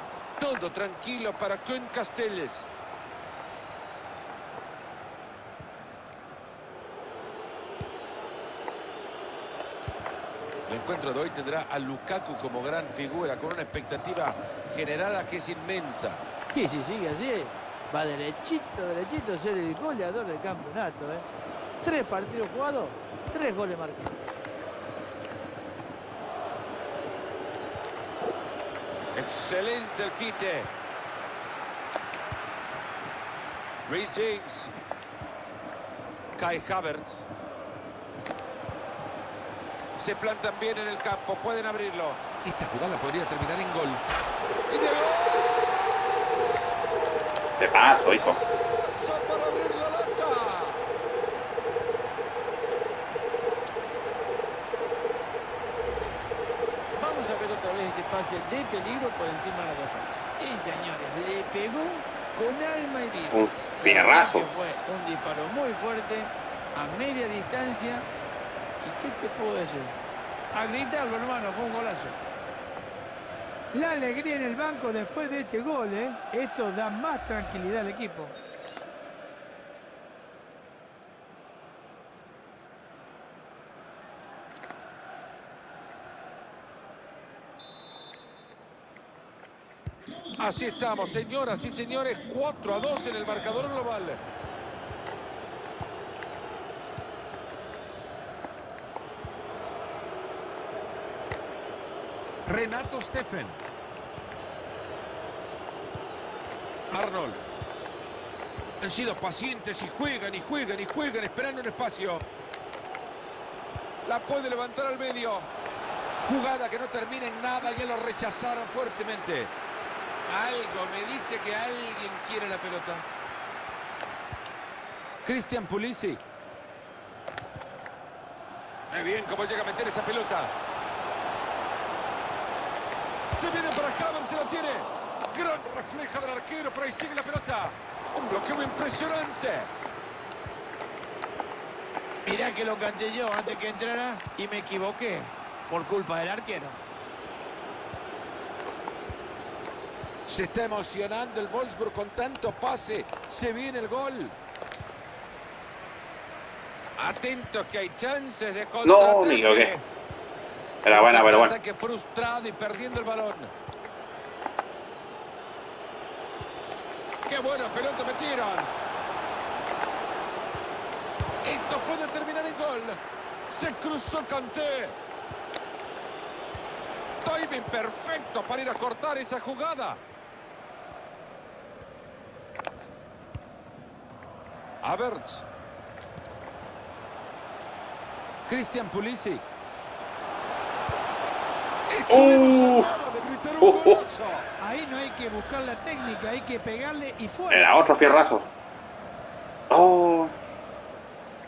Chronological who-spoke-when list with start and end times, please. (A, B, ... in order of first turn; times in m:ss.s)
0:00.4-0:02.7 A
0:10.7-0:16.2 A
0:16.5-0:21.2 B
0:21.8-0:22.2 C
0:21.8-0:24.2 B
0:29.1-0:30.7 A
0:33.9-0:34.7 A
0:36.4-0:37.2 A
0:40.0-0:44.0 A
0:44.7-0:50.9 A
0:47.6-0:48.4 D
0:56.9-1:08.1 B
1:03.3-1:04.5 D
1:08.8-1:10.0 B
1:10.5-1:12.2 B
1:13.7-1:18.3 C
1:30.4-1:34.2 A
1:42.4-1:43.6 A
1:46.9-1:47.5 A
1:48.8-1:52.2 A
1:54.0-1:55.5 A
1:56.2-1:59.5 A
2:00.3-2:03.0 A
2:05.2-2:06.2 A
2:08.9-2:10.5 A
2:13.3-2:19.7 A
2:22.2-2:26.8 B
2:30.3-2:34.4 A
2:37.0-2:39.8 A
2:38.8-2:39.7 D
2:40.8-2:41.5 D
2:40.9-2:43.5 A
2:47.2-2:48.7 A
2:51.4-2:55.0 A
2:57.2-3:00.0 A
3:04.8-3:05.4 A
3:08.5-3:09.4 A
3:11.9-3:14.5 A
3:12.1-3:12.9 D
3:13.6-3:14.0 D
3:14.6-3:17.9 C
3:17.5-3:18.5 D
3:19.7-3:20.3 D